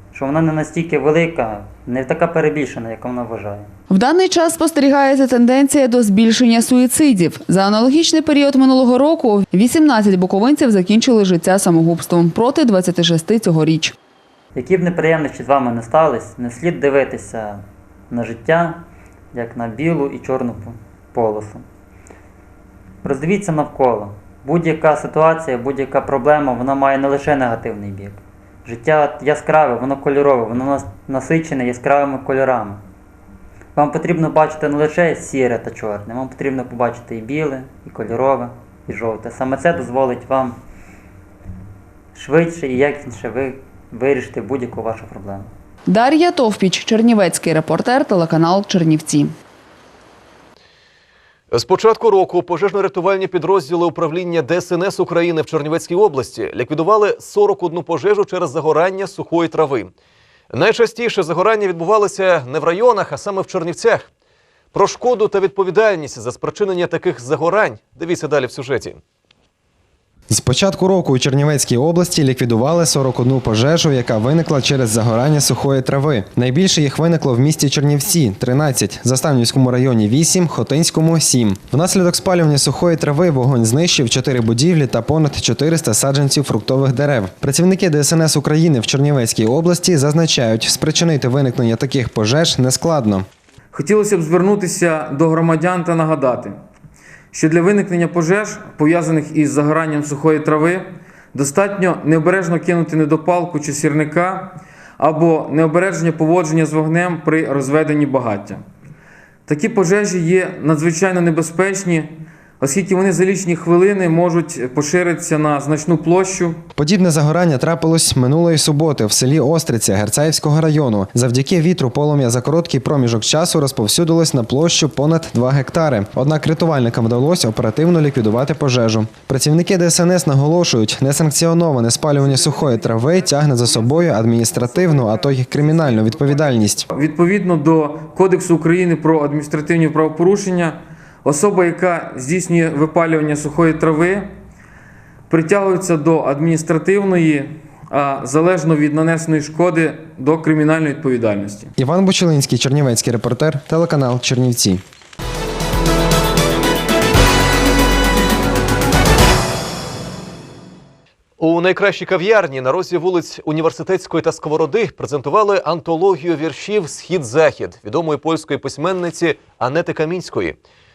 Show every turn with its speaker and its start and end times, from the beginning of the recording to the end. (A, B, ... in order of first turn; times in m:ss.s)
0:00.1-0:03.7 A
0:03.9-0:14.0 B
0:14.6-0:18.8 A
0:19.3-0:21.6 A
0:23.0-0:32.8 A
0:33.8-0:40.6 A
0:42.2-0:45.5 A
0:45.9-0:49.3 B
0:51.5-0:59.9 C
1:00.5-1:04.1 C
1:04.7-1:09.0 C
1:10.3-1:33.3 D
1:33.7-1:36.6 E
1:37.3-1:48.6 E
1:49.5-1:56.6 E
1:56.8-2:16.9 D
2:16.9-2:24.3 E
2:25.3-2:31.7 E
2:31.8-2:34.8 D
2:41.4-2:50.6 C